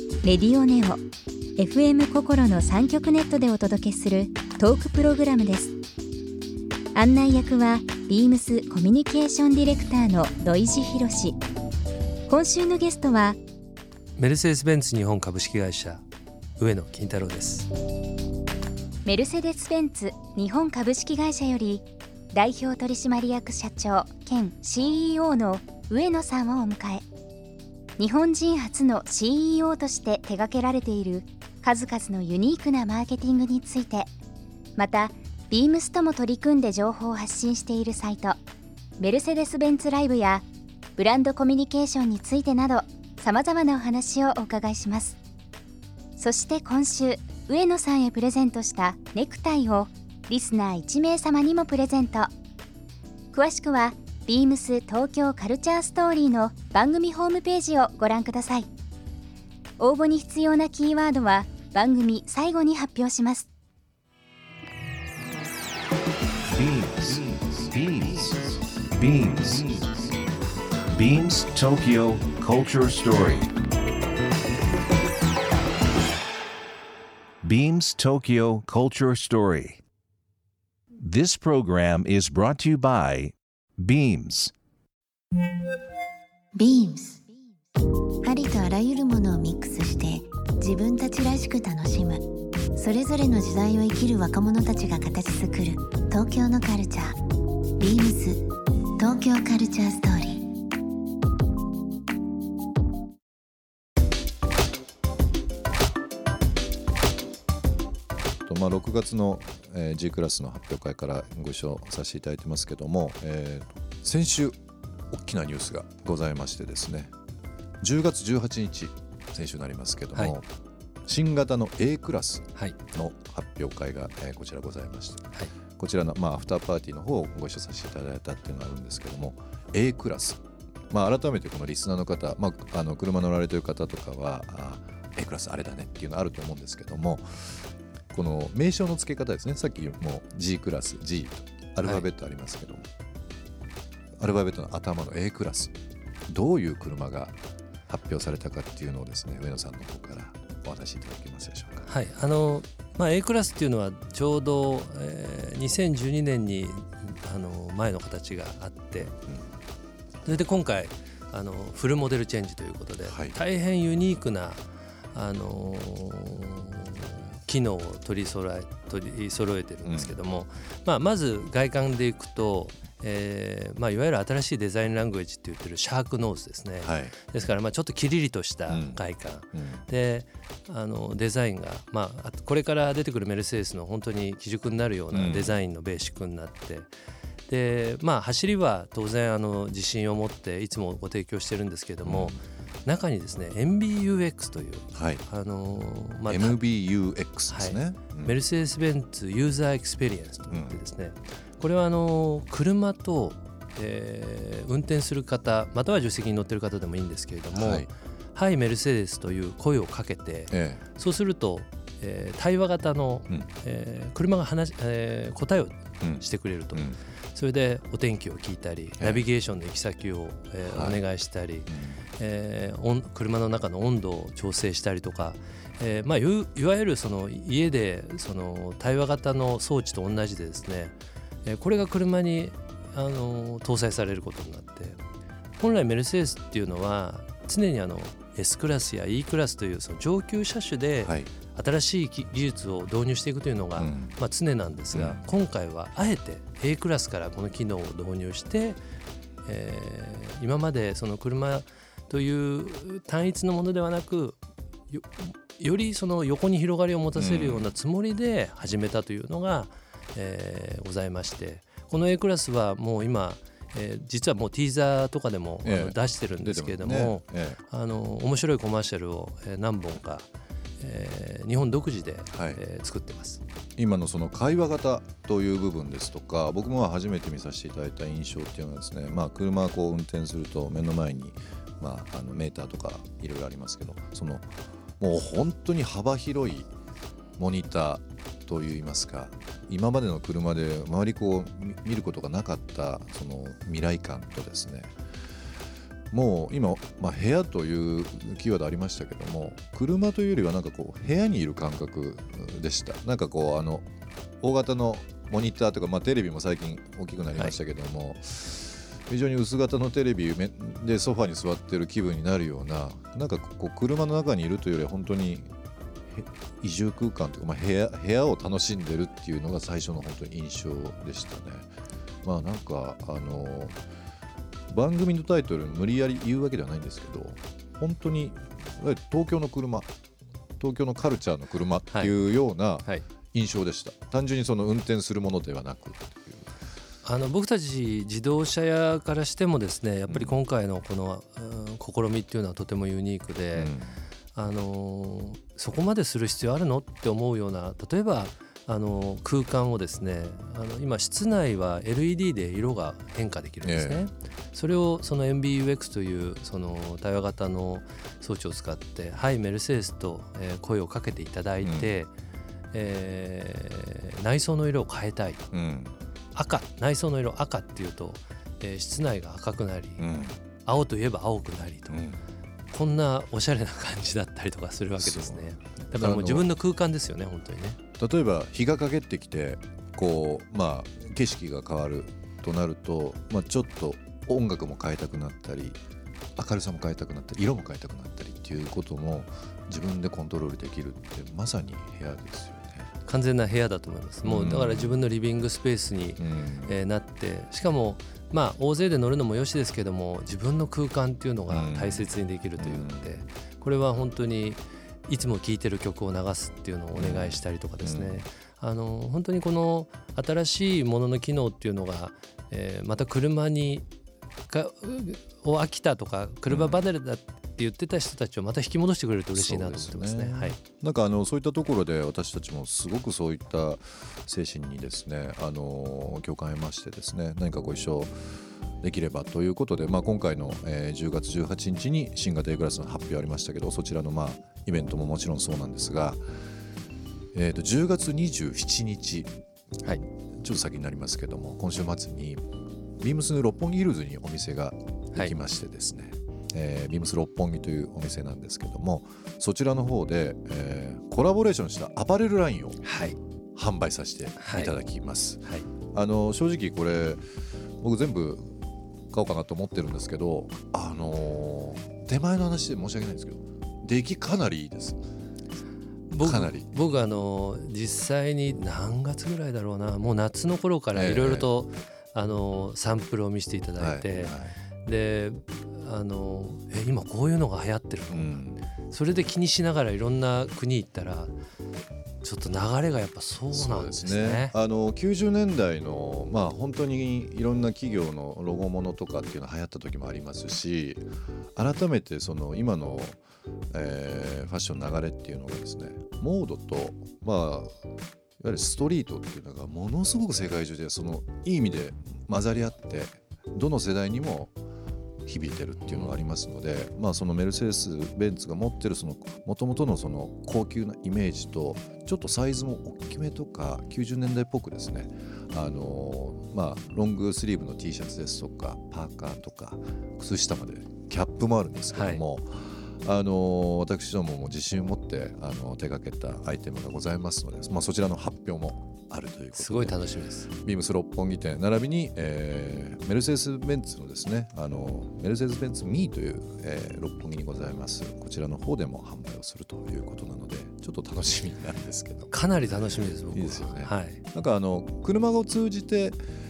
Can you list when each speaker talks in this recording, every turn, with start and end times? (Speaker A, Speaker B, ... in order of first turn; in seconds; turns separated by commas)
Speaker A: 0.2-1.0, Speaker A: 1.6-5.7, Speaker A: 6.9-11.3, Speaker A: 12.3-13.4, Speaker B: 14.2-16.0, Speaker B: 16.6-17.7, Speaker A: 19.1-27.0, Speaker A: 28.0-34.1, Speaker A: 34.8-38.4, Speaker A: 39.0-45.2, Speaker A: 46.2-52.3, Speaker A: 53.3-58.7, Speaker A: 59.8-63.5, Speaker C: 66.5-70.1, Speaker C: 70.9-73.5, Speaker C: 77.4-79.8, Speaker C: 81.0-84.5, Speaker D: 86.5-87.2, Speaker D: 88.2-92.2, Speaker D: 92.8-97.1, Speaker D: 97.8-98.4, Speaker D: 99.0-100.4, Speaker E: 108.5-114.6, Speaker E: 115.1-117.1, Speaker E: 117.8-120.5, Speaker E: 121.0-142.9, Speaker E: 144.2-145.7, Speaker E: 146.3-147.4, Speaker E: 147.9-151.9, Speaker B: 151.8-159.2, Speaker B: 160.2-186.9, Speaker E: 163.0-163.3, Speaker E: 169.8-170.2, Speaker E: 176.8-177.2, Speaker E: 178.7-179.8, Speaker E: 185.1-185.6, Speaker B: 187.5-196.6, Speaker E: 192.0-192.4, Speaker E: 194.9-195.2, Speaker E: 196.3-198.4, Speaker B: 197.5-235.0, Speaker E: 200.5-200.8, Speaker E: 207.5-207.9, Speaker E: 210.5-210.8, Speaker E: 216.0-217.0, Speaker E: 220.6-221.0, Speaker E: 221.7-222.0, Speaker B: 235.6-248.8, Speaker E: 241.0-241.3, Speaker E: 243.8-244.2, Speaker E: 244.9-245.3, Speaker B: 249.5-273.4, Speaker E: 257.1-257.7, Speaker E: 265.6-267.6, Speaker E: 272.3-272.6, Speaker E: 273.8-286.7, Speaker E: 287.4-294.9, Speaker E: 296.1-303.9, Speaker E: 304.4-315.5, Speaker E: 316.1-321.7, Speaker E: 322.2-323.8, Speaker E: 324.7-329.9, Speaker E: 330.6-336.5, Speaker B: 331.9-333.0, Speaker B: 337.0-343.7, Speaker E: 340.1-340.4, Speaker E: 343.5-344.0, Speaker B: 344.3-362.1, Speaker E: 353.6-354.1, Speaker E: 361.6-361.9, Speaker B: 362.7-365.5, Speaker E: 365.5-365.9, Speaker B: 366.3-370.0, Speaker E: 370.0-370.4, Speaker B: 370.6-372.0, Speaker E: 371.9-372.2, Speaker B: 372.7-377.8, Speaker E: 375.0-376.5, Speaker E: 378.0-385.8, Speaker E: 386.4-392.9, Speaker B: 393.1-413.9, Speaker E: 394.2-395.0, Speaker E: 396.2-396.7, Speaker E: 401.5-403.2, Speaker E: 406.9-408.2, Speaker B: 414.5-420.6, Speaker E: 416.5-416.9, Speaker E: 419.3-436.2, Speaker E: 437.3-439.3, Speaker E: 440.3-442.4, Speaker E: 443.0-452.8, Speaker B: 452.8-453.2, Speaker E: 453.5-457.2, Speaker B: 454.4-454.7, Speaker E: 457.8-465.0, Speaker B: 466.1-478.4, Speaker E: 466.2-466.8, Speaker E: 470.9-471.5, Speaker E: 473.8-474.6, Speaker E: 478.1-478.6, Speaker B: 478.9-481.3, Speaker B: 482.2-484.5, Speaker E: 483.5-493.2, Speaker E: 493.7-497.8, Speaker E: 498.4-504.5, Speaker E: 505.2-530.0, Speaker B: 505.8-506.2, Speaker B: 521.9-522.2, Speaker B: 529.5-530.5, Speaker E: 530.5-546.2, Speaker B: 542.3-544.2